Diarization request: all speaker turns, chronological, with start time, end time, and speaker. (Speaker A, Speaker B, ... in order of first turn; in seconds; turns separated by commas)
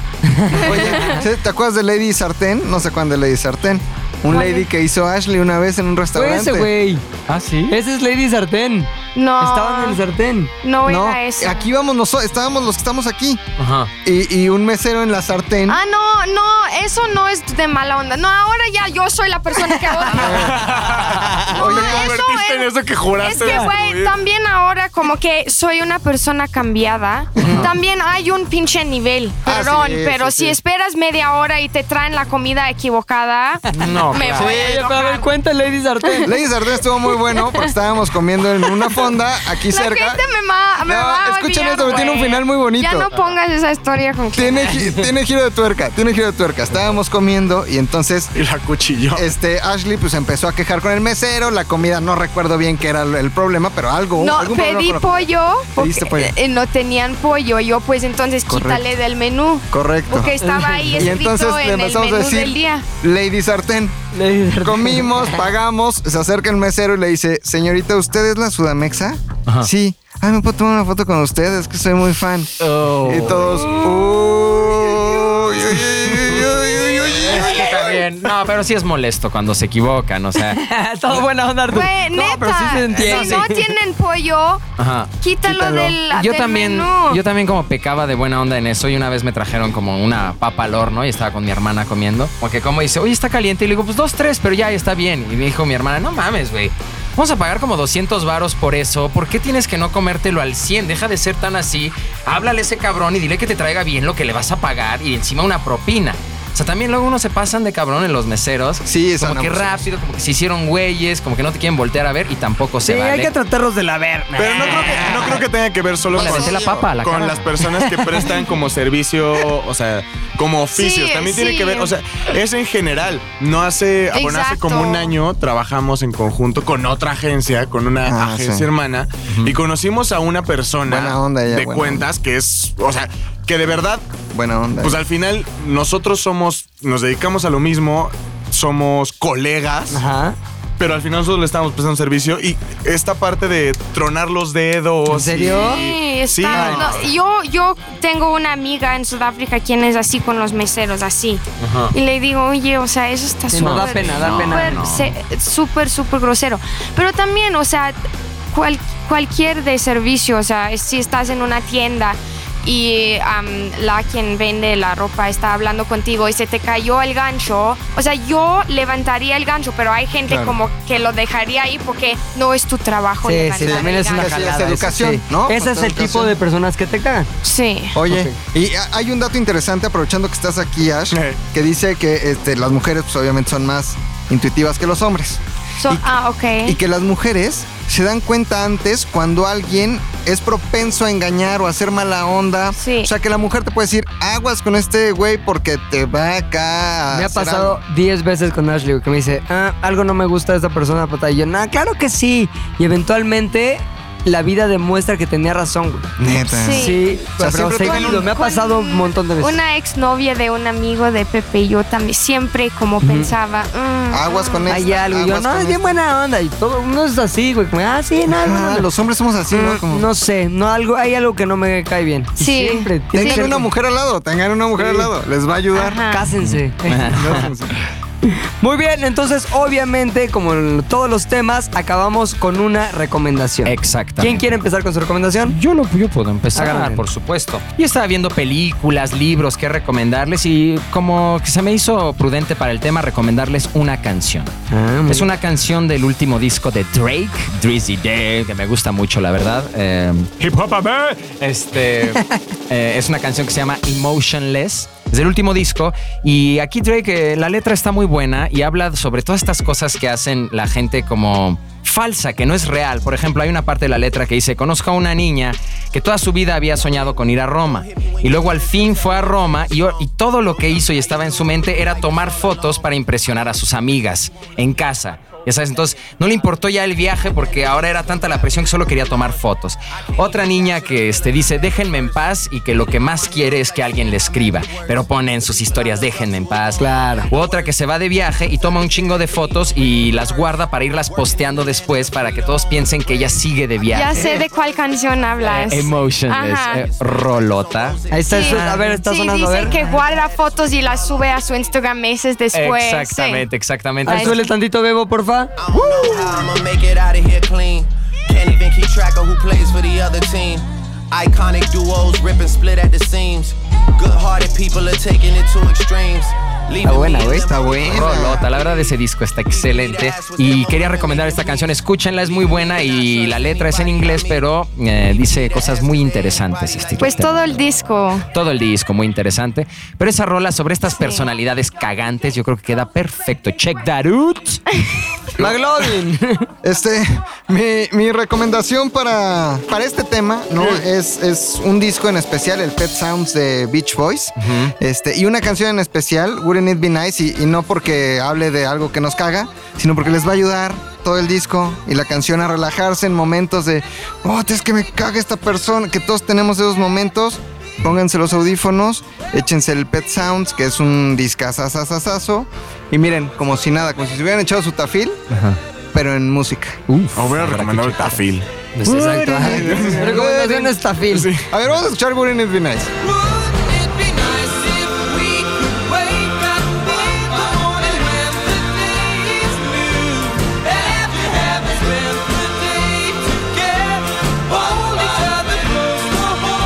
Speaker A: 0.2-1.2, Speaker B: 0.6-6.7, Speaker C: 0.6-1.2, Speaker C: 4.3-4.7, Speaker A: 6.1-7.0, Speaker D: 7.3-7.8, Speaker A: 7.7-10.5, Speaker C: 9.1-10.0, Speaker C: 10.6-11.7, Speaker B: 10.9-13.4, Speaker D: 13.6-13.9, Speaker B: 14.1-15.8, Speaker C: 15.7-20.5, Speaker B: 20.1-20.6, Speaker E: 20.1-24.1, Speaker C: 21.5-35.3, Speaker B: 21.5-22.1, Speaker B: 27.4-27.7, Speaker B: 29.4-30.6, Speaker D: 33.7-34.6, Speaker A: 34.3-36.3, Speaker B: 34.3-34.8, Speaker C: 36.0-36.3, Speaker B: 36.2-40.2, Speaker C: 37.1-37.7, Speaker C: 39.6-44.9, Speaker B: 40.8-43.1, Speaker B: 44.3-48.3, Speaker E: 48.3-49.3, Speaker B: 49.1-56.3, Speaker C: 54.2-62.8, Speaker B: 58.5-58.8, Speaker B: 59.7-60.3, Speaker A: 60.4-61.2, Speaker B: 61.0-64.0, Speaker A: 64.1-65.5, Speaker B: 64.6-78.3, Speaker D: 72.6-73.9, Speaker D: 76.3-80.6, Speaker A: 80.4-83.6, Speaker C: 81.7-84.6, Speaker D: 83.0-83.4, Speaker D: 84.8-85.1, Speaker C: 85.2-87.2, Speaker B: 85.4-86.0, Speaker D: 86.1-113.3, Speaker B: 108.9-109.9, Speaker A: 112.8-115.4, Speaker E: 114.4-134.1, Speaker D: 114.8-115.0, Speaker D: 116.1-117.5, Speaker B: 116.2-116.8, Speaker A: 117.8-118.2, Speaker C: 120.7-121.9, Speaker C: 124.1-125.1, Speaker B: 128.1-128.7, Speaker D: 129.3-129.6, Speaker B: 130.8-132.1, Speaker B: 134.3-135.0, Speaker E: 134.8-140.0, Speaker A: 139.9-140.4, Speaker E: 140.8-147.1, Speaker A: 145.1-145.8, Speaker C: 145.6-158.0, Speaker A: 146.5-146.9, Speaker D: 151.6-151.9, Speaker A: 153.5-154.8, Speaker D: 153.6-155.1, Speaker C: 158.5-174.5, Speaker B: 170.3-170.6, Speaker A: 173.2-177.3, Speaker B: 173.6-176.3, Speaker C: 177.4-178.0, Speaker B: 177.9-186.1, Speaker A: 178.1-178.4, Speaker E: 181.1-181.4, Speaker C: 185.8-186.8, Speaker B: 186.6-197.8, Speaker C: 192.8-193.1, Speaker A: 197.1-206.1, Speaker B: 206.2-208.3, Speaker C: 206.5-207.1, Speaker A: 206.7-209.6, Speaker C: 207.8-214.7, Speaker A: 213.0-213.3, Speaker B: 214.1-215.9, Speaker A: 214.7-218.9, Speaker B: 218.3-220.1, Speaker A: 219.5-223.7, Speaker C: 222.4-223.5, Speaker B: 223.1-226.0, Speaker A: 224.8-225.1, Speaker C: 225.7-226.3, Speaker A: 226.1-227.5, Speaker D: 226.4-227.5, Speaker B: 227.1-227.7, Speaker A: 228.2-235.6, Speaker D: 233.7-234.4, Speaker D: 235.4-244.5, Speaker A: 236.6-237.0, Speaker A: 244.7-245.3, Speaker D: 245.1-294.3, Speaker F: 266.7-273.2, Speaker F: 277.5-279.2, Speaker F: 280.1-298.8, Speaker A: 286.8-287.3, Speaker C: 293.9-296.8, Speaker A: 294.1-294.4, Speaker D: 295.4-299.1, Speaker A: 298.1-299.9, Speaker C: 298.3-303.5, Speaker F: 299.4-301.7, Speaker D: 302.5-304.4, Speaker A: 304.1-305.6, Speaker C: 304.1-304.5, Speaker F: 305.6-327.7, Speaker A: 316.8-317.8, Speaker B: 317.2-318.5, Speaker D: 317.8-327.4, Speaker C: 327.0-328.3, Speaker D: 328.3-334.6, Speaker C: 330.9-331.3, Speaker A: 335.4-336.5, Speaker B: 336.6-365.2, Speaker D: 344.4-344.7, Speaker D: 365.3-365.6, Speaker B: 365.9-366.8, Speaker D: 366.9-368.2, Speaker E: 367.1-368.5, Speaker A: 368.7-371.3, Speaker D: 368.8-369.7, Speaker B: 369.4-370.8, Speaker E: 369.6-370.1, Speaker E: 371.1-371.5, Speaker B: 371.4-372.9, Speaker D: 373.9-380.0, Speaker D: 381.1-382.0, Speaker D: 384.7-386.1